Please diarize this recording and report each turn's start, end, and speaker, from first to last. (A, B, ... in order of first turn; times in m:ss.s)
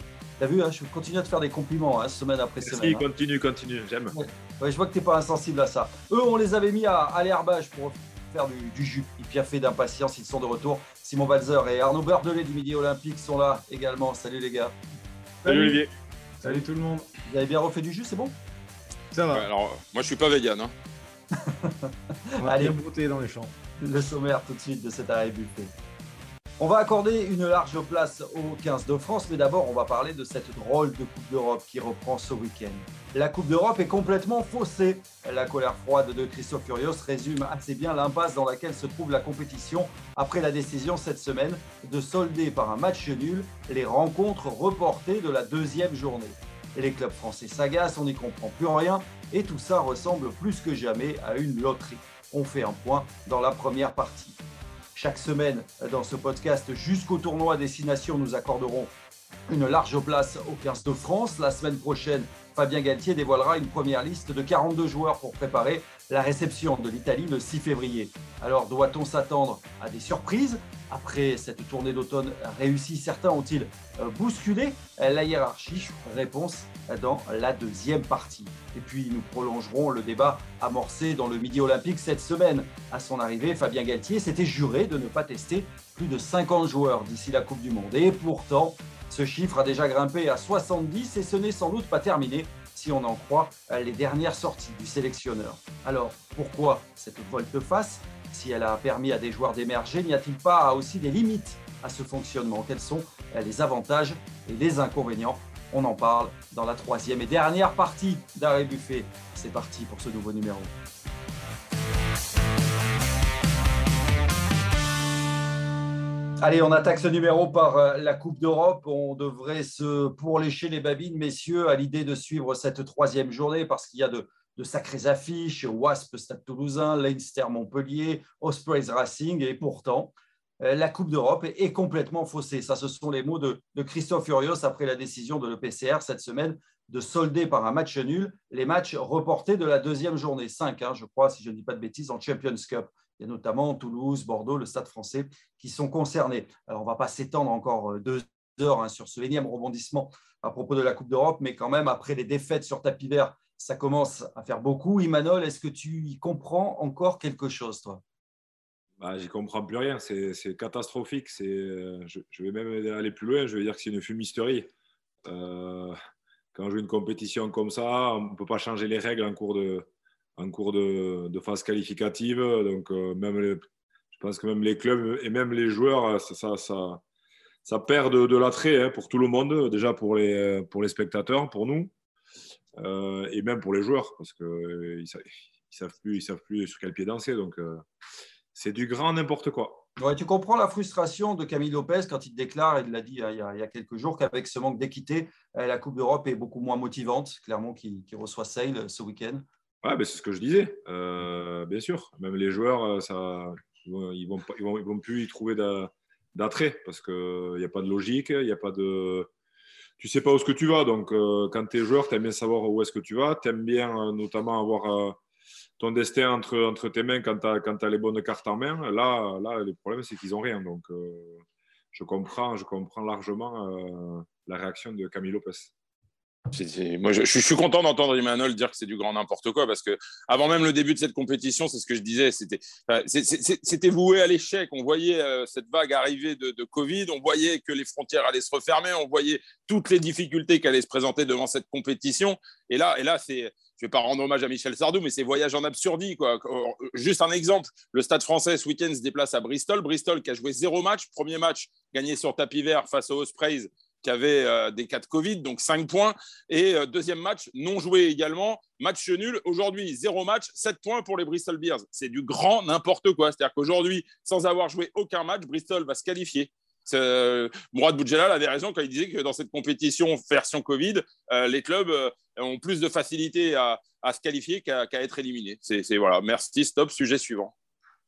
0:00.4-0:03.0 A
0:02.6-0:04.2 B
0:04.1-0:14.7 A
0:15.4-0:15.8 C
0:15.4-0:15.9 D
0:16.4-0:17.1 C
0:17.2-0:18.3 A
0:19.1-0:19.5 C
0:19.3-0:20.7 D
0:21.3-0:22.7 A
0:22.4-0:23.5 C
0:23.8-0:25.7 A
0:26.6-0:54.4 A
0:54.9-0:58.9 A
0:59.5-1:50.7 A
1:56.4-2:38.0 A
2:39.0-2:44.7 B
2:45.2-2:45.9 B
2:46.5-2:57.0 B
2:57.6-3:01.9 B
3:02.7-3:07.8 B
3:08.5-3:09.9 B
3:10.0-3:19.4 A
3:19.8-3:29.3 B
3:30.0-3:35.2 B
3:35.8-3:41.4 B
3:41.9-3:45.7 B
3:46.5-4:37.5 D